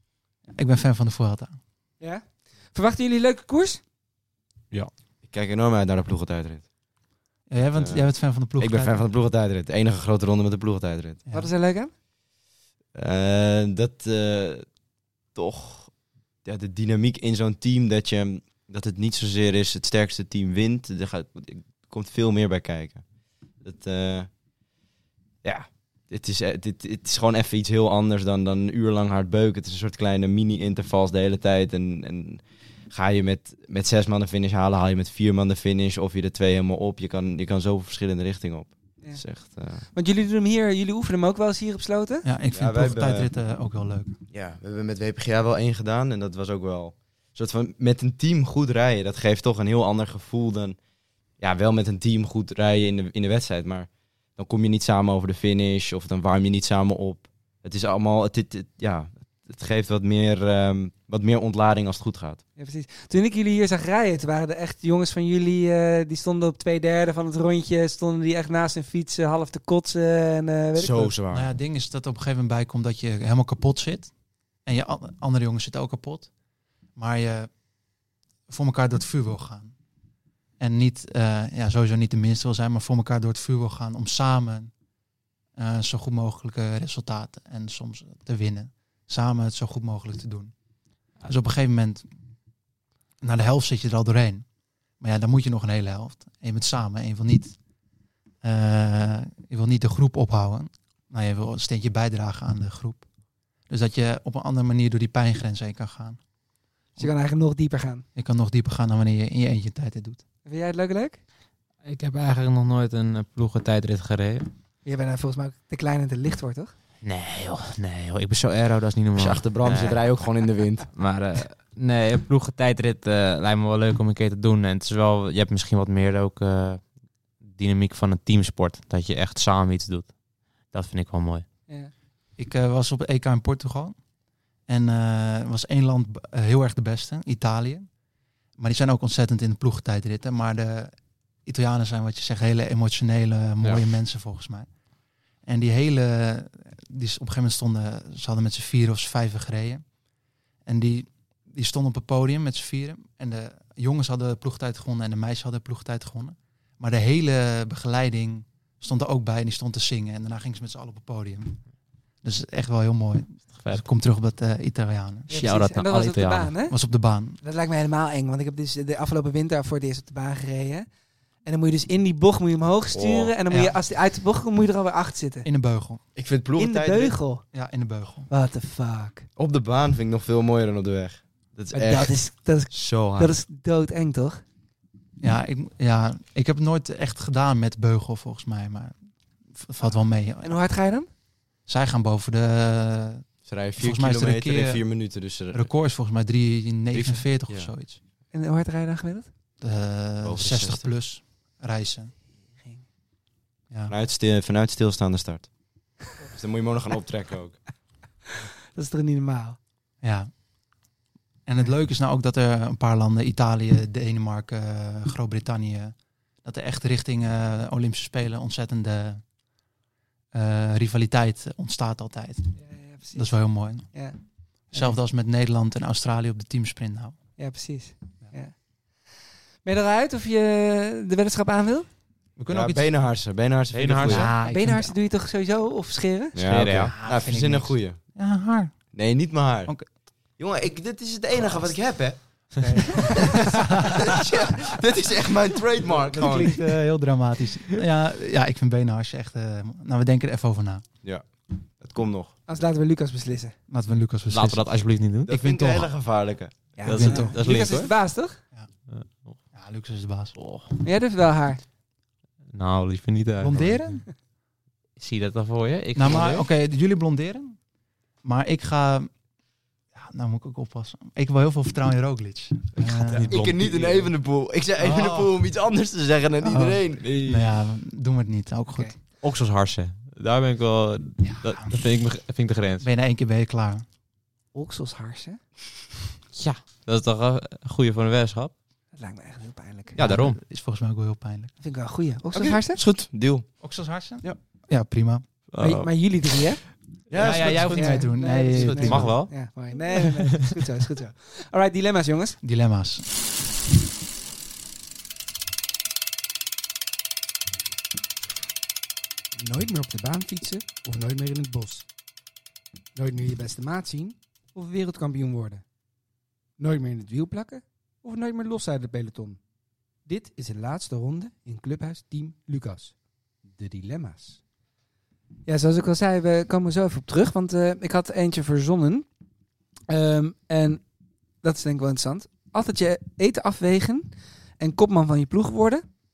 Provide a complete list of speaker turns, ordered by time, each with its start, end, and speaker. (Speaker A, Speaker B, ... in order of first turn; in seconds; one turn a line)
Speaker A: 0.5-1.6
Speaker B: 2.0-3.8
Speaker C: 4.7-6.7
Speaker A: 7.5-9.1
Speaker C: 7.8-11.2
Speaker B: 11.3-11.9
Speaker C: 12.9-14.7
Speaker C: 15.3-15.9
Speaker C: 16.4-23.0
Speaker C: 23.6-24.3
Speaker C: 25.4-39.9
Speaker B: 39.8-42.3
Speaker A: 42.2-44.2
Speaker C: 42.5-43.3
Speaker C: 44.3-50.8
Speaker C: 51.4-62.4
Speaker B: 62.6-71.1
Speaker C: 70.8-71.5
Speaker A: 71.3-74.1
Speaker A: 74.7-76.3
Speaker A: 77.0-77.5
Speaker A: 78.5-79.7
Speaker A: 80.6-84.7
Speaker A: 85.6-90.5
Speaker A: 91.2-92.1
Speaker A: 93.2-94.5
Speaker A: 95.0-97.5
Speaker A: 98.4-103.0
Speaker A: 103.7-106.2
Speaker B: 107.0-108.0
Speaker A: 108.2-110.2
Speaker B: 110.5-111.2
Speaker D: 111.8-114.5
Speaker B: 114.8-116.7
Speaker D: 117.0-120.2
Speaker C: 119.2-120.9
Speaker D: 120.9-126.8
Speaker D: 127.5-130.1
Speaker D: 130.7-131.4
Speaker A: 132.4-134.0
Speaker A: 134.7-137.9
Speaker A: 138.6-140.9
Speaker A: 141.5-144.7
Speaker A: 145.5-149.8
Speaker A: 150.7-161.6
Speaker A: 162.2-165.3
Speaker D: 163.5-163.8
Speaker B: 165.3-166.7
Speaker D: 165.3-166.5
Speaker A: 166.7-167.4
Speaker B: 167.4-170.9
Speaker B: 171.4-175.5
Speaker C: 172.9-173.3
Speaker A: 173.5-173.8
Speaker A: 175.4-176.0
Speaker C: 176.2-177.2
Speaker B: 176.6-177.4
Speaker A: 177.5-178.3
Speaker B: 178.3-179.3
Speaker C: 179.4-183.4
Speaker B: 181.7-184.4
Speaker A: 185.2-189.0
Speaker A: 189.5-190.6
Speaker B: 190.4-191.1
Speaker A: 191.7-194.8
Speaker C: 193.4-195.7
Speaker A: 195.5-198.0
Speaker C: 196.9-197.7
Speaker B: 198.3-199.3
Speaker A: 199.6-202.1
Speaker C: 200.2-200.9
Speaker C: 203.9-205.5
Speaker C: 206.3-207.6
Speaker B: 208.8-209.6
Speaker A: 210.0-210.3
Speaker A: 211.5-219.2
Speaker A: 220.3-222.5
Speaker B: 222.6-223.3
Speaker A: 223.2-223.9
Speaker A: 224.7-227.2
Speaker B: 227.4-228.5
Speaker B: 229.6-231.9
Speaker A: 232.4-232.9
Speaker C: 232.5-234.3
Speaker D: 233.7-234.3
Speaker A: 234.0-234.9
Speaker B: 234.4-236.4
Speaker C: 236.3-238.0
Speaker D: 236.4-237.0
Speaker A: 236.9-238.9
Speaker C: 238.9-239.8
Speaker C: 240.4-242.2
Speaker A: 242.6-244.6
Speaker C: 242.9-246.6
Speaker A: 245.9-250.8
Speaker C: 251.8-252.3
Speaker B: 252.5-253.6
Speaker A: 253.7-254.6
Speaker D: 254.3-255.3
Speaker C: 255.3-256.8
Speaker A: 255.3-255.9
Speaker B: 256.8-258.4
Speaker D: 256.8-257.9
Speaker A: 256.9-257.4
Speaker D: 258.9-259.4
Speaker A: 259.5-260.4
Speaker D: 260.4-260.7
Speaker B: 260.8-261.6
Speaker D: 262.5-264.0
Speaker A: 263.4-264.1
Speaker D: 265.0-266.5
Speaker A: 265.9-267.6
Speaker A: 268.2-269.1
Speaker A: 269.9-273.4
Speaker D: 272.8-274.1
Speaker C: 273.3-277.5
Speaker A: 275.0-275.3
Speaker A: 276.4-278.9
Speaker D: 279.2-282.9
Speaker A: 281.2-281.7
Speaker A: 282.8-283.9
Speaker B: 284.5-285.4
Speaker D: 286.4-288.5
Speaker B: 289.0-290.0
Speaker D: 290.0-290.4
Speaker A: 290.0-291.5
Speaker B: 291.6-292.8
Speaker C: 292.3-293.5
Speaker A: 293.6-295.2
Speaker D: 295.5-295.9
Speaker B: 295.6-296.6
Speaker C: 297.1-299.1
Speaker A: 297.1-299.2
Speaker B: 297.7-302.4
Speaker D: 298.8-299.4
Speaker A: 302.4-303.1
Speaker B: 309.4-311.9
Speaker B: 312.9-315.6
Speaker B: 316.6-319.4
Speaker B: 320.1-322.9
Speaker B: 323.5-324.4
Speaker B: 325.5-329.1
Speaker B: 329.9-330.8
Speaker B: 331.4-335.8